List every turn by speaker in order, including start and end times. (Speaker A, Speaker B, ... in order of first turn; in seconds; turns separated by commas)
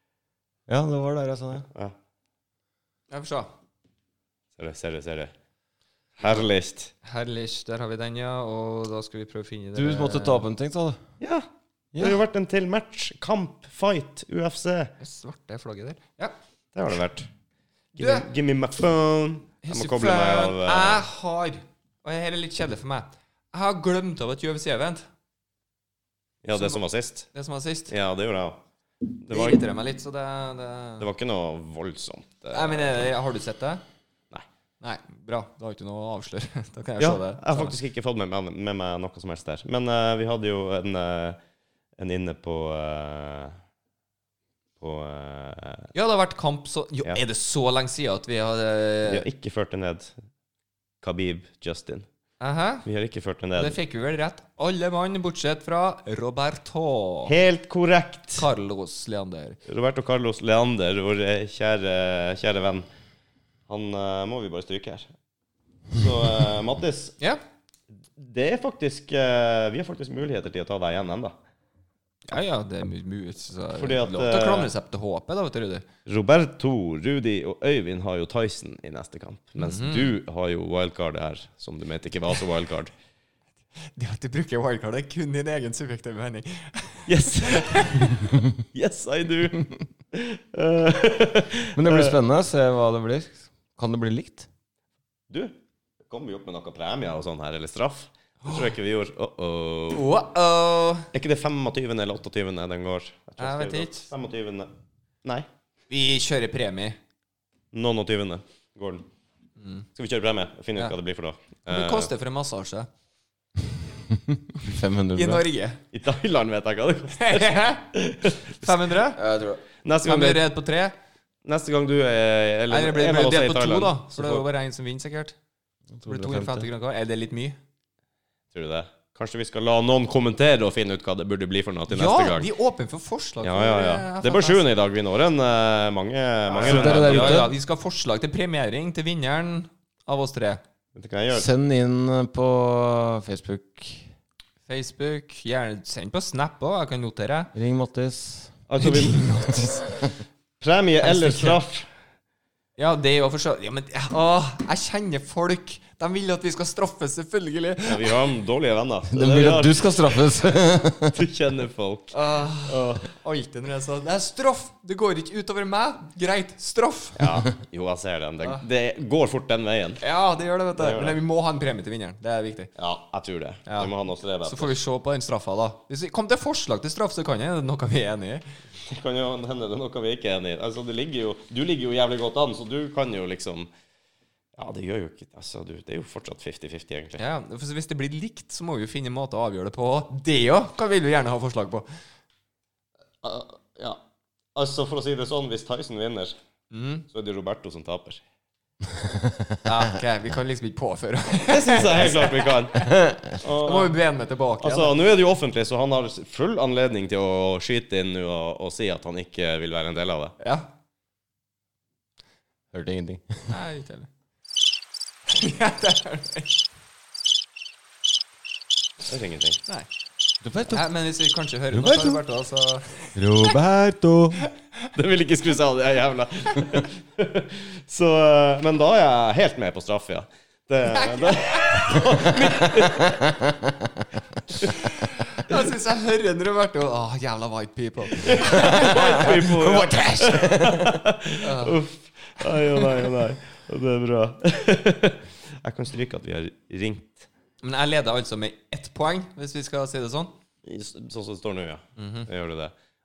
Speaker A: 0.7-1.6, Speaker B: 3.1-3.5, Speaker C: 4.6-5.3, Speaker C: 6.2-6.9, Speaker B: 7.0-10.4, Speaker A: 9.7-11.0, Speaker C: 11.2-14.9, Speaker A: 11.9-12.2, Speaker B: 15.0-16.3, Speaker C: 16.7-17.3, Speaker B: 17.9-18.3, Speaker C: 17.9-21.0, Speaker B: 19.6-25.1, Speaker C: 26.4-27.3, Speaker B: 26.5-26.8, Speaker B: 27.3-27.9, Speaker C: 27.9-28.6, Speaker C: 29.2-29.6, Speaker B: 29.3-31.1, Speaker C: 31.0-33.0, Speaker B: 32.5-33.8, Speaker B: 34.8-37.7, Speaker C: 37.0-41.4, Speaker C: 42.0-43.5, Speaker C: 44.8-45.9, Speaker B: 45.9-49.2, Speaker C: 49.0-50.1, Speaker C: 51.0-52.0, Speaker B: 52.4-52.9, Speaker C: 52.8-53.8, Speaker B: 53.5-57.3, Speaker C: 57.3-58.5, Speaker B: 58.4-59.6, Speaker C: 59.7-62.9, Speaker C: 63.7-65.1, Speaker C: 65.9-67.1, Speaker C: 68.2-71.3, Speaker B: 72.3-75.8, Speaker C: 73.8-74.7, Speaker C: 76.1-82.9, Speaker B: 79.6-80.1, Speaker B: 83.9-88.1, Speaker C: 87.1-92.1, Speaker A: 91.7-94.5, Speaker C: 95.3-95.5, Speaker C: 96.1-100.1, Speaker B: 98.4-98.7, Speaker B: 99.9-101.1, Speaker C: 101.1-104.7, Speaker B: 103.4-104.1, Speaker B: 105.9-107.0, Speaker C: 107.7-109.0, Speaker B: 109.6-109.9, Speaker C: 110.0-112.1, Speaker B: 111.7-112.9, Speaker A: 114.1-115.4, Speaker B: 115.1-115.8, Speaker C: 115.9-118.7, Speaker B: 117.2-117.8, Speaker B: 118.5-119.2, Speaker A: 119.1-119.6, Speaker C: 119.8-120.5, Speaker B: 120.0-120.9, Speaker C: 121.4-124.4, Speaker B: 122.7-125.3, Speaker A: 126.0-126.7, Speaker B: 126.0-127.6, Speaker C: 128.5-132.5, Speaker B: 131.9-134.6, Speaker C: 133.4-137.5, Speaker B: 136.5-140.6, Speaker A: 136.6-137.5, Speaker C: 140.9-141.5, Speaker A: 141.3-144.1, Speaker B: 144.7-147.5, Speaker A: 147.5-150.2, Speaker C: 148.7-149.4, Speaker C: 150.6-151.9, Speaker B: 151.0-151.6, Speaker B: 152.8-158.2, Speaker C: 157.9-160.2, Speaker A: 159.1-161.2, Speaker C: 161.1-162.1, Speaker B: 162.1-167.3, Speaker C: 162.7-163.1, Speaker C: 167.2-170.0, Speaker B: 170.0-172.7, Speaker C: 170.8-171.2, Speaker C: 172.8-174.7, Speaker B: 173.7-173.9, Speaker B: 174.4-178.4, Speaker C: 178.9-183.7, Speaker C: 184.6-187.2, Speaker B: 187.2-191.9, Speaker C: 193.2-194.0, Speaker C: 194.6-196.3, Speaker B: 196.7-197.1, Speaker C: 197.1-198.2, Speaker A: 199.1-199.4, Speaker B: 199.6-202.9, Speaker C: 201.5-203.9, Speaker B: 203.6-204.9, Speaker C: 204.6-210.3, Speaker B: 210.4-210.7, Speaker A: 212.7-213.5, Speaker B: 213.5-214.1, Speaker B: 215.3-216.5, Speaker C: 219.1-219.6, Speaker A: 220.4-220.9, Speaker B: 220.7-223.2, Speaker A: 221.7-222.2, Speaker A: 223.2-224.4, Speaker C: 224.9-233.3, Speaker B: 230.9-232.4, Speaker A: 232.8-233.9, Speaker B: 234.8-239.6, Speaker C: 238.2-247.3, Speaker A: 238.9-241.0, Speaker B: 241.4-241.8, Speaker B: 247.6-250.3, Speaker C: 250.6-252.7, Speaker B: 252.0-252.3